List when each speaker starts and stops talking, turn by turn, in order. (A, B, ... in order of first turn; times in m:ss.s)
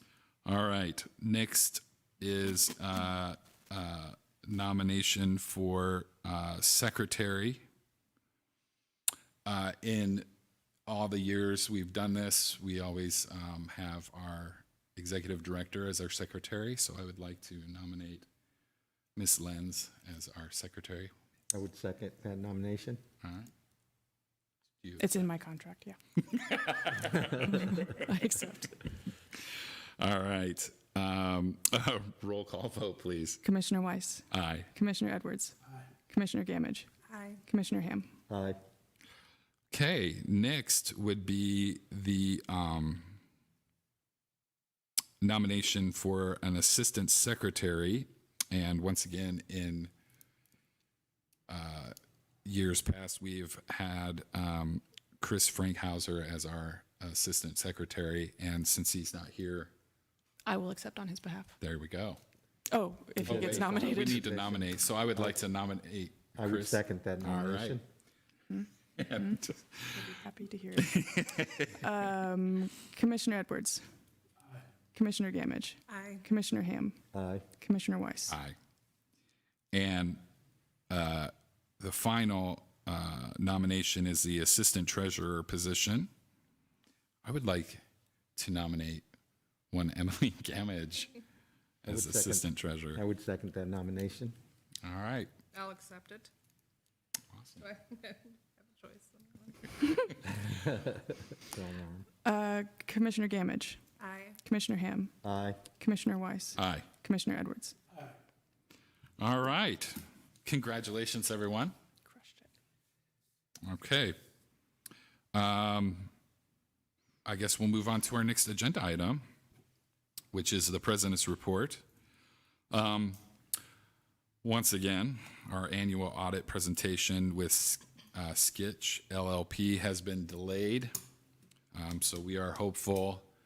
0:00.4-0:07.6 A
0:09.4-0:10.3 A
0:10.9-0:18.3 A
0:19.2-0:21.1 A
0:21.5-0:23.0 B
0:23.2-0:23.5 A
0:24.8-0:25.3 A
0:25.0-0:26.0 C
0:26.2-0:27.9 A
0:27.3-0:28.8 C
0:30.0-0:33.4 A
0:33.4-0:35.6 C
0:34.3-0:34.7 A
0:36.1-0:36.9 C
0:37.1-0:37.4 D
0:37.5-0:38.1 C
0:38.3-0:38.6 B
0:39.7-0:43.2 A
0:45.2-0:49.9 A
0:51.5-0:51.9 A
0:52.4-0:59.7 A
1:00.5-1:01.6 C
1:01.6-1:02.2 A
1:02.7-1:04.2 C
1:03.2-1:07.8 A
1:03.2-1:05.4 B
1:06.4-1:07.8 B
1:08.5-1:11.0 C
1:09.0-1:10.0 A
1:10.8-1:11.9 A
1:11.8-1:13.8 C
1:15.0-1:17.0 C
1:15.9-1:16.2 D
1:17.1-1:17.5 B
1:17.6-1:18.4 C
1:18.3-1:18.6 A
1:19.7-1:20.2 A
1:20.9-1:26.1 A
1:27.2-1:27.8 A
1:28.4-1:29.1 A
1:29.7-1:31.2 A
1:31.8-1:33.0 A
1:31.9-1:34.4 B
1:34.8-1:35.3 A
1:35.5-1:36.3 D
1:37.3-1:37.6 A
1:37.6-1:40.2 D
1:40.2-1:42.1 B
1:42.2-1:43.8 C
1:44.0-1:44.4 D
1:44.4-1:45.1 C
1:45.2-1:45.6 B
1:45.8-1:47.8 C
1:46.6-1:46.9 A
1:49.2-1:51.7 A
1:52.1-1:52.5 C
1:53.6-1:54.2 A
1:55.3-1:56.1 A
1:57.2-1:59.2 A
2:00.3-2:01.8 A
2:02.7-2:03.2 A
2:04.4-2:10.9 A
2:11.7-2:13.3 A